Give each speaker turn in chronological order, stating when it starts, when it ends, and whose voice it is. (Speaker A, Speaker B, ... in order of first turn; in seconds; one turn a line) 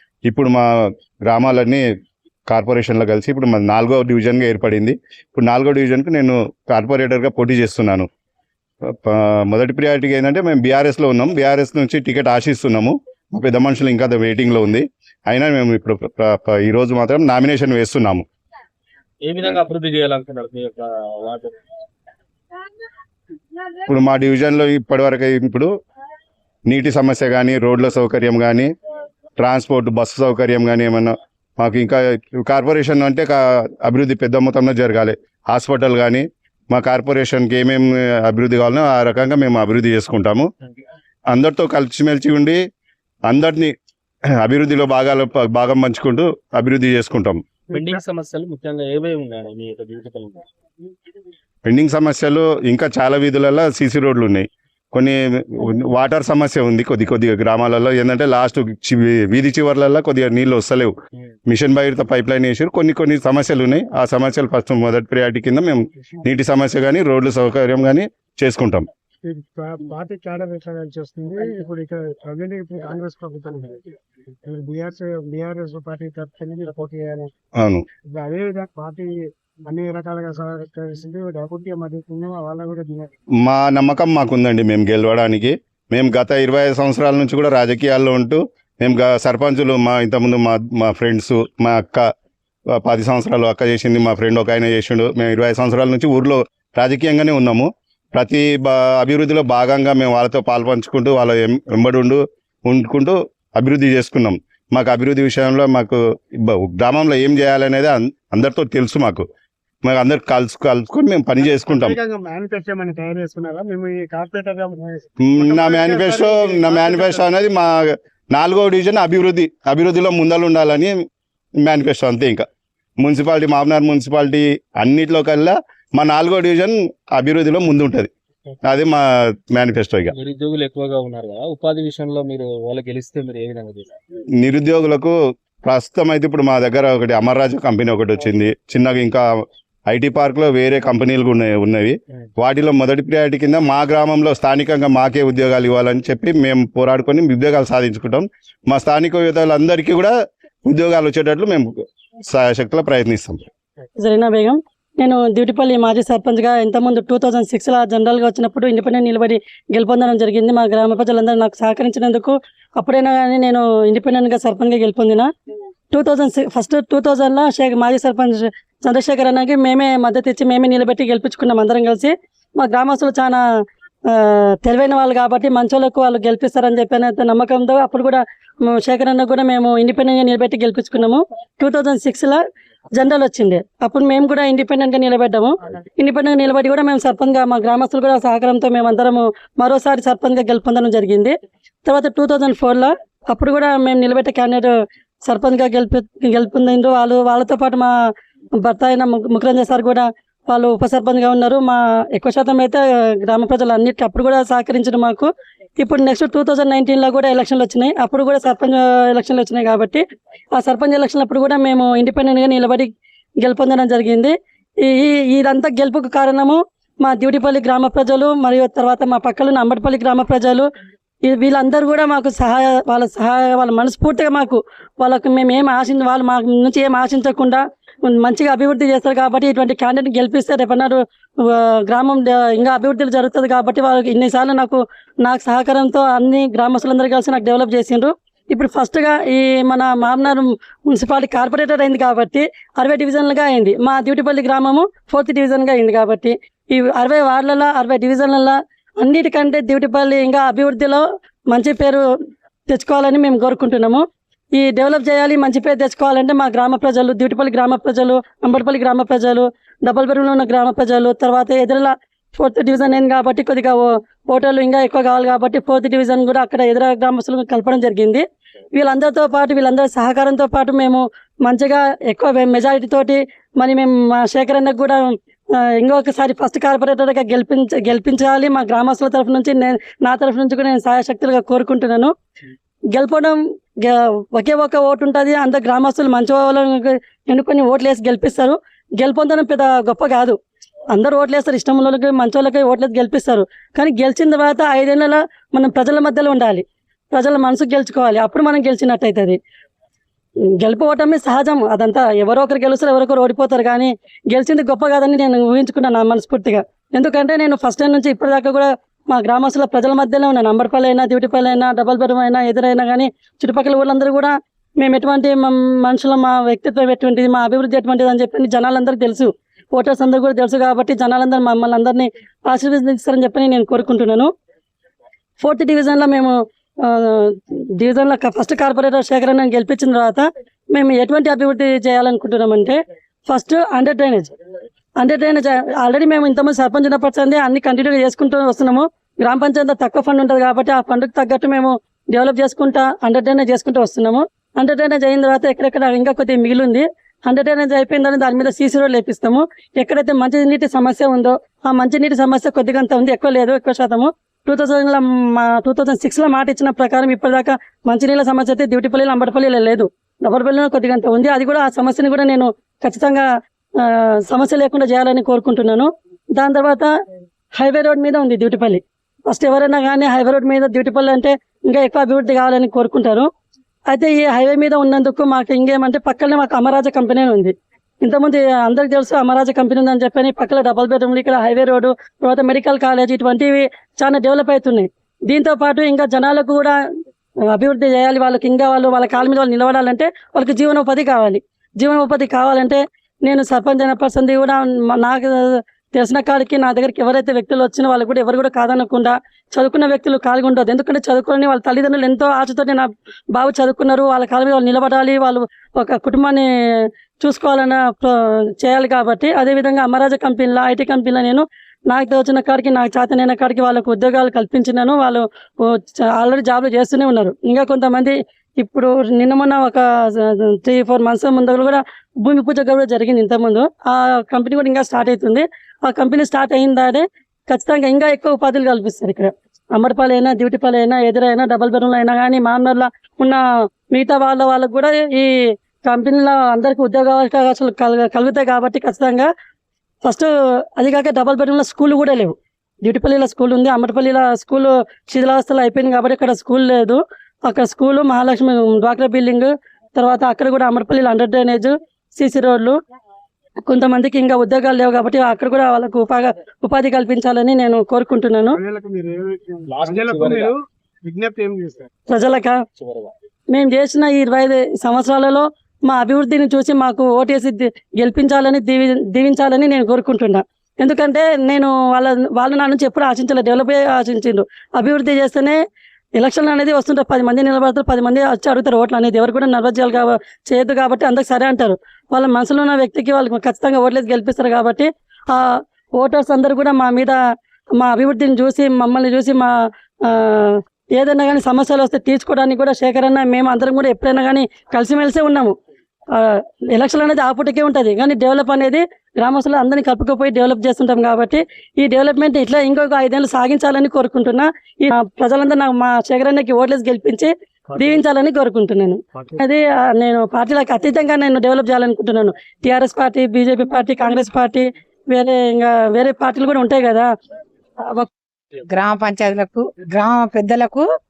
Speaker A: 0.3-0.7
Speaker A: 1.3-1.8
Speaker A: 2.5-8.1
Speaker A: 8.9-18.2
Speaker B: 19.2-21.6
Speaker A: 23.9-25.7
Speaker A: 26.7-28.7
Speaker A: 29.4-40.5
Speaker A: 41.3-42.6
Speaker A: 43.3-43.7
Speaker A: 44.4-47.4
Speaker B: 47.7-50.5
Speaker A: 51.7-60.9
Speaker A: 61.5-68.9
Speaker C: 69.2-73.9
Speaker C: 74.5-77.3
Speaker A: 77.6-77.8
Speaker C: 78.1-79.1
Speaker C: 79.7-83.1
Speaker A: 83.4-92.0
Speaker A: 92.8-109.3
Speaker A: 109.9-112.0
Speaker C: 111.4-117.3
Speaker A: 115.2-117.8
Speaker A: 118.3-120.9
Speaker A: 121.6-122.5
Speaker A: 123.0-128.1
Speaker A: 128.7-129.0
Speaker A: 129.5-130.1
Speaker B: 130.1-134.0
Speaker A: 134.4-139.2
Speaker A: 139.9-150.1
Speaker A: 150.7-151.7
Speaker A: 152.3-153.4
Speaker D: 154.0-165.3
Speaker D: 165.9-173.4
Speaker D: 174.1-182.4
Speaker D: 183.0-194.7
Speaker D: 195.2-197.9
Speaker D: 198.6-210.0
Speaker D: 210.6-220.7
Speaker D: 221.3-252.0
Speaker D: 252.7-254.0
Speaker D: 254.6-268.2
Speaker D: 268.8-275.0
Speaker D: 275.6-282.1
Speaker D: 282.9-290.4
Speaker D: 290.9-299.4
Speaker D: 300.6-324.3
Speaker D: 325.4-334.3
Speaker D: 335.0-363.3
Speaker D: 363.8-366.9
Speaker D: 367.6-373.3
Speaker D: 373.9-386.8
Speaker D: 387.5-406.5
Speaker D: 407.2-435.3
Speaker D: 435.9-439.3
Speaker D: 440.0-452.8
Speaker D: 453.7-458.6
Speaker C: 458.5-461.9
Speaker B: 459.7-460.5
Speaker D: 462.1-462.6
Speaker B: 462.8-463.1
Speaker D: 463.5-475.6
Speaker D: 476.2-487.2
Speaker D: 487.8-489.5
Speaker D: 490.1-495.6
Speaker D: 496.1-517.1
Speaker C: 507.7-508.0
Speaker E: 518.7-520.9